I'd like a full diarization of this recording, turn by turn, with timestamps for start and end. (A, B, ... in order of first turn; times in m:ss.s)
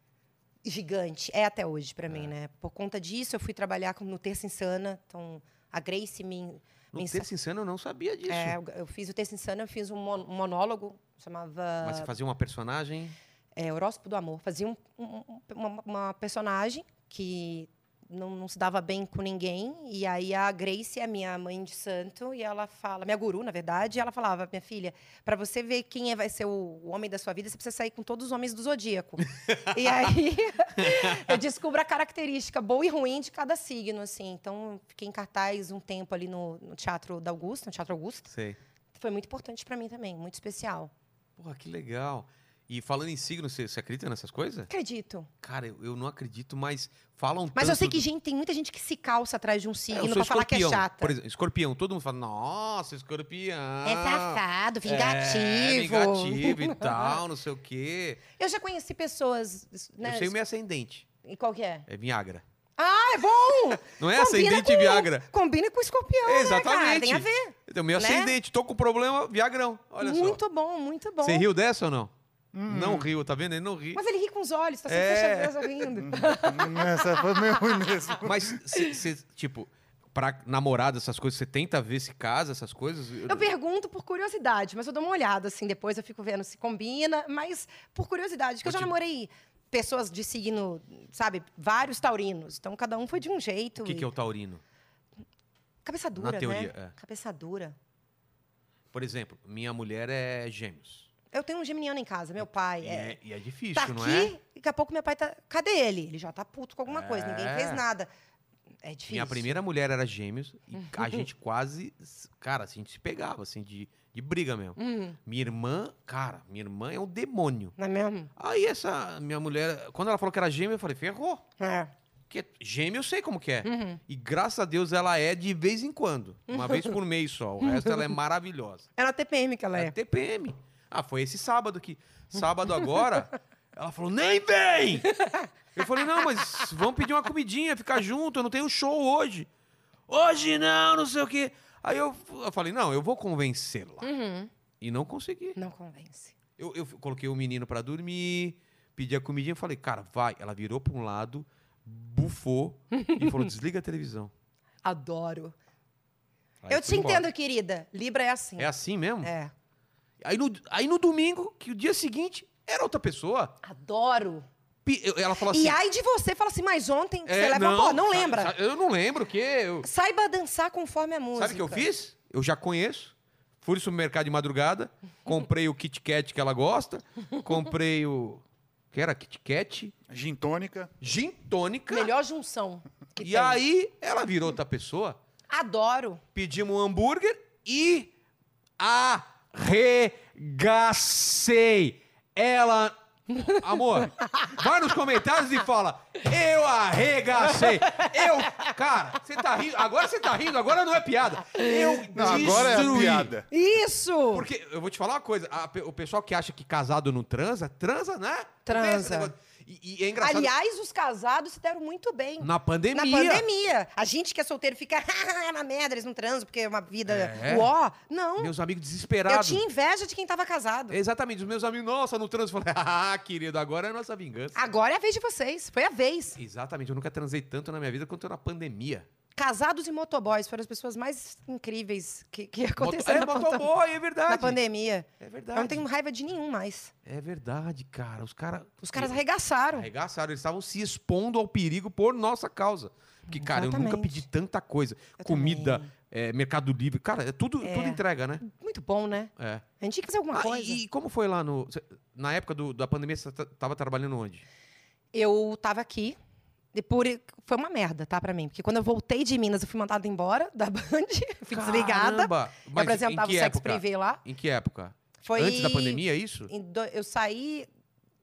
0:00.6-0:07.3 A
0:06.9-0:08.6 B
0:08.3-0:12.1 A
0:11.8-0:13.2 B
0:13.6-0:38.3 A
0:29.4-0:29.9 B
0:30.8-0:31.4 B
0:38.3-0:38.6 B
0:39.0-0:40.9 A
0:41.4-0:44.7 B
0:44.7-0:45.3 A
0:45.4-0:48.0 B
0:47.5-0:51.1 A
0:49.9-0:58.2 B
0:53.8-0:57.2 A
0:58.4-1:00.3 A
1:00.0-1:01.0 B
1:01.2-1:01.8 A
1:01.9-1:02.4 B
1:02.8-1:08.3 A
1:03.9-1:05.2 B
1:06.2-1:10.4 B
1:10.0-1:11.4 A
1:11.2-1:12.1 B
1:12.5-1:13.1 C
1:12.6-1:14.0 B
1:13.9-1:17.5 A
1:14.9-1:15.9 B
1:16.0-1:18.5 C
1:18.2-1:23.5 B
1:23.3-1:34.1 A
1:28.6-1:28.9 B
1:33.8-1:34.6 B
1:35.8-1:37.8 A
1:36.2-1:36.9 B
1:38.9-1:41.1 B
1:41.3-1:43.2 A
1:42.8-1:44.3 B
1:43.7-1:48.1 A
1:46.9-1:47.8 B
1:48.8-1:49.6 A
1:49.1-1:57.7 B
1:50.8-1:51.2 A
1:54.8-1:55.2 A
1:57.8-1:58.3 A
1:58.4-2:01.4 B
2:01.6-2:01.9 A
2:02.3-2:08.9 B
2:03.6-2:04.0 A
2:06.5-2:06.9 A
2:07.6-2:08.0 A
2:09.0-2:09.9 A
2:09.8-2:15.1 B
2:15.1-2:16.6 A
2:15.7-2:19.5 B
2:20.1-2:24.1 B
2:24.0-2:24.5 A
2:24.8-2:25.6 B
2:25.6-2:26.3 A
2:26.6-2:34.3 B
2:32.9-2:33.4 A
2:34.8-2:35.5 A
2:36.6-2:37.2 B
2:36.7-2:38.7 A
2:38.6-2:39.3 B
2:39.2-2:39.5 A
2:40.2-2:43.5 B
2:43.6-2:44.5 A
2:44.8-2:45.8 B
2:45.5-2:48.5 A
2:47.3-2:49.9 B
2:49.8-2:51.8 A
2:51.4-2:59.9 B
3:00.1-3:00.9 C
3:01.0-3:02.1 B
3:01.9-3:03.6 A
3:03.2-3:05.2 B
3:05.5-3:06.2 A
3:06.3-3:08.1 B
3:08.8-3:23.3 B
3:14.2-3:14.5 A
3:17.6-3:18.7 A
3:21.5-3:24.4 A
3:22.1-3:23.4 C
3:24.3-3:30.5 B
3:28.6-3:29.3 A
3:30.2-3:38.5 A
3:32.4-3:33.4 B
3:37.0-3:37.7 B
3:38.4-3:39.6 B
3:39.3-3:41.0 A
3:40.9-3:44.6 B
3:44.5-3:46.4 A
3:46.4-3:49.0 B
3:49.4-3:53.7 A
3:52.8-3:54.6 B
3:54.3-3:56.9 A
3:55.2-3:55.8 B
3:57.0-3:59.2 B
3:58.8-3:59.9 A
3:59.7-4:08.4 B
4:03.3-4:04.2 A
4:05.2-4:05.9 A
4:07.6-4:10.8 A
4:09.4-4:09.6 B
4:10.3-4:14.4 B
4:15.1-4:16.2 A
4:16.7-4:24.2 A
4:21.5-4:26.5 B
4:25.2-4:27.7 A